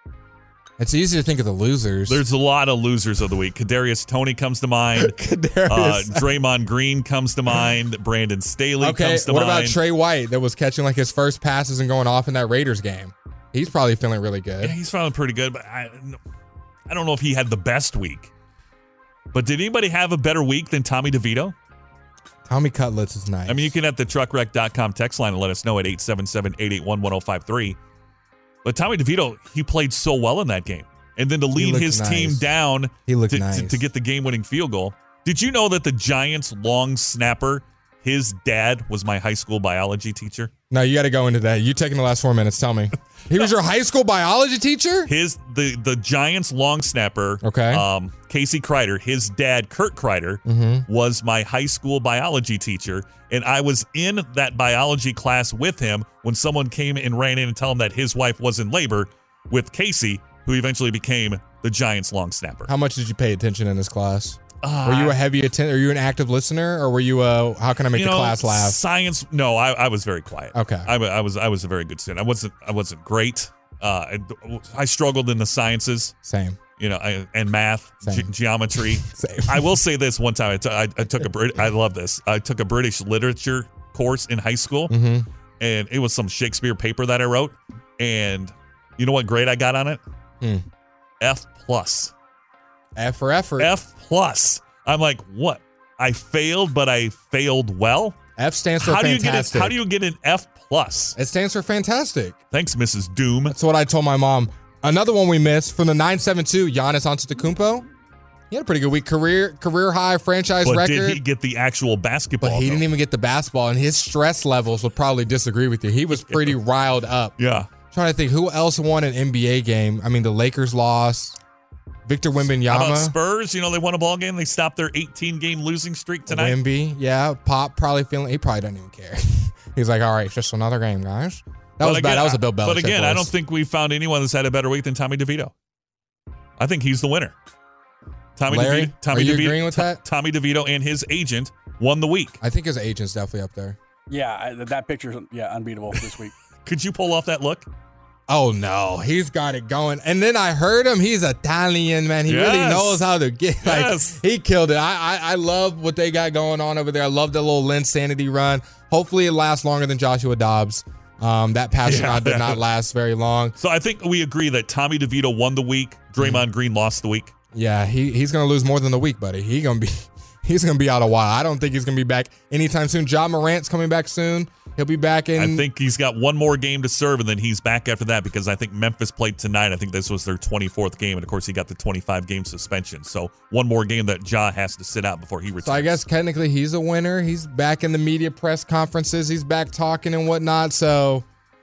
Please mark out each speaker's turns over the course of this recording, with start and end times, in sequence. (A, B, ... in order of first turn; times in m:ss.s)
0:00.8-0:02.2 A
0:02.1-0:09.8 B
0:04.9-0:06.3 A
0:08.8-0:14.8 A
0:14.6-0:16.2 B
0:16.9-0:18.3 B
0:19.3-0:21.5 B
0:22.4-0:23.7 A
0:23.5-0:27.8 B
0:28.6-0:40.5 B
0:31.5-0:32.4 A
0:33.1-0:33.8 A
0:40.7-0:45.1 A
0:45.0-1:02.7 B
0:47.4-0:47.8 A
0:50.4-0:50.9 A
1:02.7-1:08.8 A
1:04.6-1:05.2 B
1:07.9-1:16.2 B
1:10.5-1:10.9 A
1:16.2-1:16.6 A
1:16.8-1:24.9 B
1:19.0-1:19.7 A
1:24.9-1:25.3 A
1:25.6-1:30.0 B
1:31.2-1:32.1 B
1:33.0-1:33.7 A
1:33.6-1:38.2 B
1:38.4-1:39.8 A
1:38.8-1:41.2 B
1:41.2-1:42.4 A
1:42.5-1:43.6 B
1:43.5-1:47.9 A
1:48.5-1:51.2 A
1:50.6-1:52.8 B
1:52.4-2:01.4 A
1:57.4-1:57.7 B
2:02.0-2:03.1 A
2:02.6-2:06.6 B
2:06.3-2:13.3 A
2:11.8-2:15.5 B
2:16.6-2:17.3 B
2:18.4-2:22.4 B
2:18.5-2:20.0 A
2:22.4-2:23.8 A
2:24.1-2:26.3 C
2:26.6-2:27.7 B
2:28.3-2:43.6 A
2:32.3-2:33.0 B
2:33.6-2:34.2 B
2:41.8-2:42.6 B
2:43.6-2:47.3 B
2:46.2-2:46.4 A
2:47.5-2:55.6 A
2:55.4-3:05.9 B
3:05.6-3:11.2 A